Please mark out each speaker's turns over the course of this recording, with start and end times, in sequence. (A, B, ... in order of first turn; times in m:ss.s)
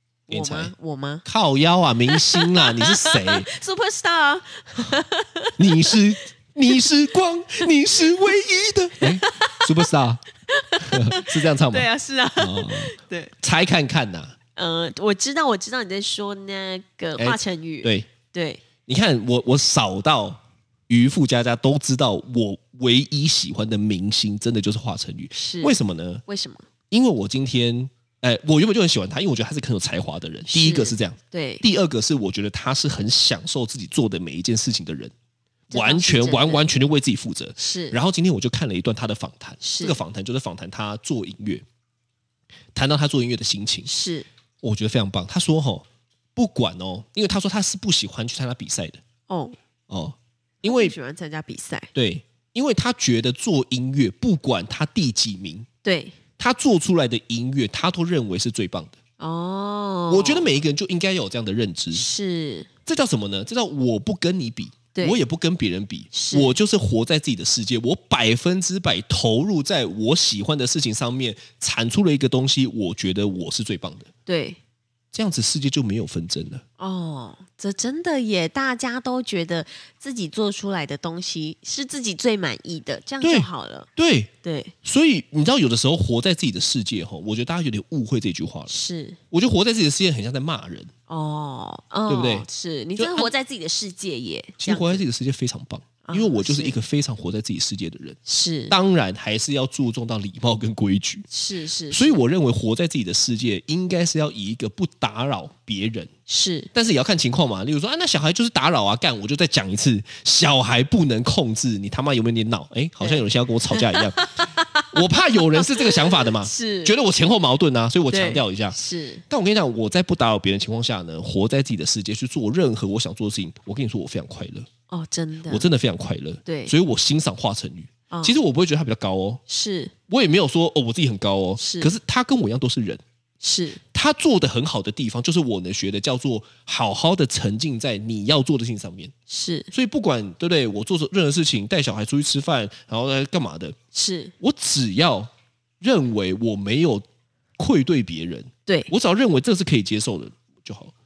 0:00.3-0:01.2 A
0:00.3-0:00.7 B
0:01.2-0:03.5 B
0:02.1-0:06.0 A
0:05.6-0:10.2 B
0:08.0-0:08.4 A
0:09.0-0:09.7 A
0:10.5-0:13.3 A
0:10.8-0:14.4 B
0:14.6-0:18.6 A
0:17.2-0:18.1 B
0:18.9-0:26.2 B
0:25.4-0:26.6 A
0:26.9-0:35.1 B
0:30.5-0:31.6 A
0:35.7-0:36.7 A
0:35.7-0:41.6 B
0:37.6-0:38.0 A
0:39.6-0:40.0 A
0:42.8-0:43.9 B
0:43.9-0:44.3 A
0:44.6-0:45.8 B
0:46.4-0:49.0 B
0:49.3-0:49.6 A
0:49.9-0:51.0 B
0:50.6-0:51.9 A
0:51.9-0:55.7 B
0:55.8-0:56.2 A
0:56.4-0:59.0 B
0:59.2-1:00.5 A
1:00.1-1:02.0 B
1:01.9-1:02.7 A
1:02.9-1:14.1 B
1:06.1-1:06.6 A
1:14.3-1:14.6 A
1:15.1-1:16.6 B
1:16.8-1:23.9 A
1:23.2-1:24.3 B
1:24.4-1:24.7 A
1:24.8-1:28.7 B
1:28.7-1:29.2 A
1:29.3-1:30.9 B
1:31.1-1:35.0 A
1:32.1-1:33.3 B
1:34.6-1:38.2 B
1:36.0-1:36.8 A
1:38.3-1:38.8 A
1:38.7-1:41.3 B
1:41.3-1:42.2 A
1:41.9-1:46.1 B
1:46.3-1:46.7 A
1:46.7-1:54.3 B
1:53.0-1:57.0 A
1:54.9-1:58.8 B
1:58.1-1:59.2 A
1:59.3-2:04.7 B
2:04.9-2:05.7 A
2:05.5-2:09.4 B
2:06.4-2:06.7 A
2:08.1-2:08.4 A
2:09.5-2:09.9 A
2:10.1-2:13.0 B
2:11.6-2:11.9 A
2:13.4-2:13.8 A
2:13.9-2:19.1 B
2:19.3-2:19.7 A
2:19.7-2:23.8 B
2:23.9-2:24.3 A
2:24.4-2:25.3 B
2:25.8-2:27.0 B
2:27.6-2:30.9 B
2:28.7-2:28.9 A